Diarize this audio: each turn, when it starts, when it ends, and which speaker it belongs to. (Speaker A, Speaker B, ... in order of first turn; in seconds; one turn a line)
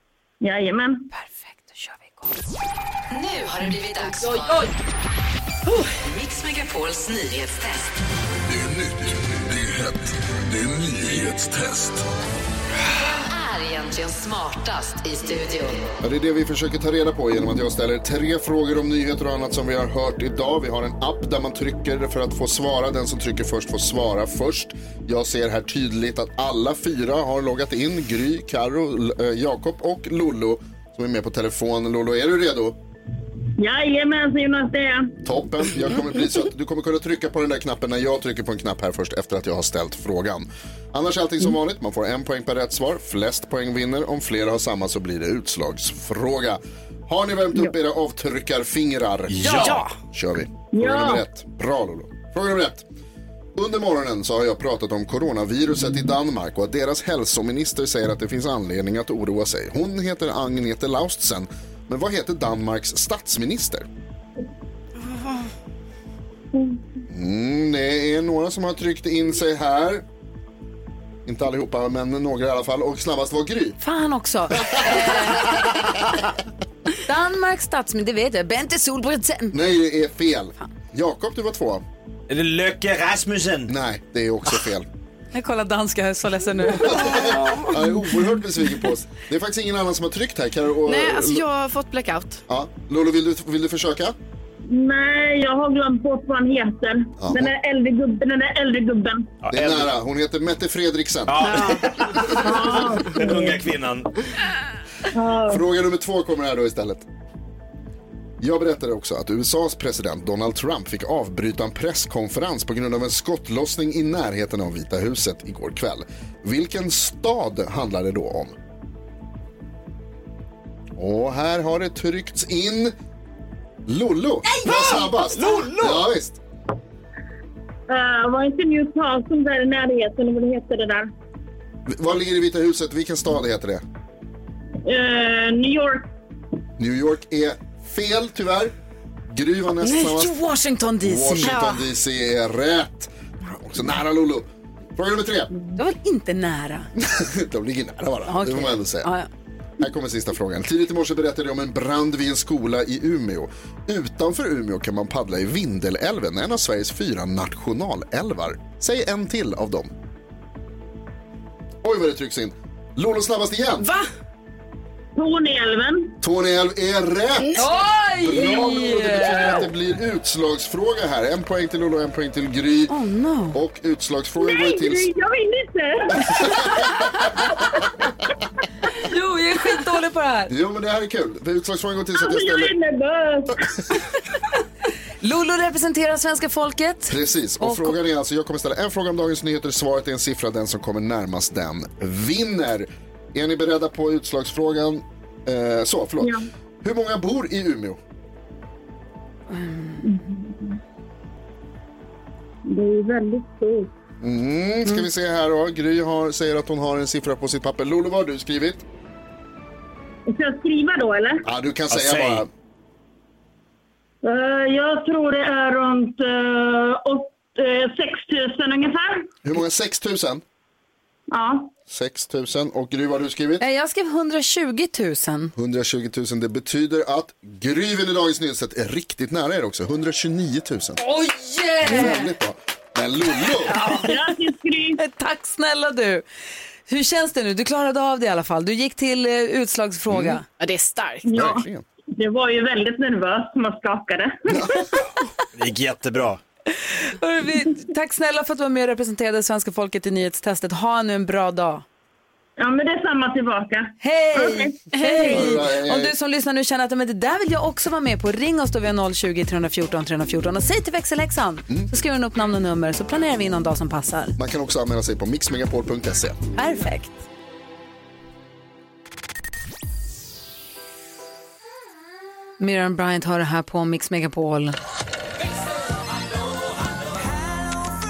Speaker A: 0.4-1.1
Speaker B: 3.1-4.3
Speaker C: 4.2-4.7
Speaker B: 6.1-7.8
Speaker D: 8.5-9.9
Speaker D: 10.5-12.0
Speaker B: 13.2-15.8
Speaker E: 16.0-32.8
Speaker A: 33.6-35.2
Speaker E: 35.2-52.8
Speaker F: 49.3-49.8
Speaker A: 50.7-51.2
Speaker E: 53.5-63.9
Speaker G: 65.0-65.5
Speaker E: 67.1-70.0
Speaker E: 71.2-73.8
Speaker C: 73.8-75.8
Speaker E: 74.5-75.8
Speaker C: 77.0-79.6
Speaker E: 79.5-81.8
Speaker F: 82.3-83.7
Speaker E: 83.7-84.9
Speaker C: 85.3-87.5
Speaker E: 86.8-91.4
Speaker G: 87.2-87.6
Speaker G: 90.9-92.4
Speaker E: 92.5-94.1
Speaker A: 94.7-99.3
Speaker E: 97.2-97.5
Speaker F: 99.4-99.9
Speaker E: 99.5-101.7
Speaker F: 101.3-104.1
Speaker G: 101.4-102.5
Speaker A: 102.4-103.6
Speaker A: 105.1-105.6
Speaker E: 105.5-107.0
Speaker E: 108.4-118.5
Speaker E: 121.0-122.9
Speaker E: 123.8-126.4
Speaker A: 127.9-131.1
Speaker E: 131.8-133.8
Speaker A: 134.8-136.1
Speaker E: 136.8-138.7
Speaker E: 139.3-140.3
Speaker G: 139.8-140.1
Speaker C: 140.1-141.6
Speaker E: 141.0-145.5
Speaker G: 141.4-141.9
Speaker C: 145.8-146.9
Speaker E: 147.0-149.1
Speaker C: 148.3-149.3
Speaker E: 149.8-159.9
Speaker E: 161.8-163.9
Speaker G: 163.8-164.1
Speaker A: 165.2-166.1
Speaker E: 166.2-172.9
Speaker C: 167.6-169.7
Speaker C: 172.9-173.6
Speaker E: 173.5-175.1
Speaker A: 174.4-177.0
Speaker E: 176.3-176.9
Speaker C: 179.0-180.5
Speaker E: 180.5-182.7
Speaker A: 182.2-183.8
Speaker C: 185.2-187.9
Speaker E: 187.1-198.0
Speaker C: 199.5-200.0
Speaker A: 200.0-200.8
Speaker A: 202.7-203.9
Speaker E: 204.2-208.8
Speaker A: 210.3-211.4
Speaker E: 211.4-212.5
Speaker F: 211.9-212.4
Speaker A: 214.2-219.3
Speaker E: 219.4-220.4
Speaker A: 221.3-221.7
Speaker E: 221.9-223.6
Speaker C: 223.6-225.5
Speaker E: 225.6-231.0
Speaker C: 231.0-232.3
Speaker E: 231.8-233.9
Speaker C: 233.6-234.2
Speaker A: 233.9-235.0
Speaker C: 234.9-236.2
Speaker C: 236.9-240.4
Speaker E: 240.1-240.4
Speaker G: 240.6-241.4
Speaker A: 241.2-244.9
Speaker E: 241.3-241.8
Speaker E: 244.6-244.8
Speaker F: 245.6-246.4
Speaker C: 246.8-251.8
Speaker A: 252.6-255.3
Speaker C: 254.0-264.4
Speaker G: 254.9-255.4
Speaker E: 255.3-256.1
Speaker E: 264.4-266.4
Speaker C: 266.6-267.2
Speaker C: 272.6-274.8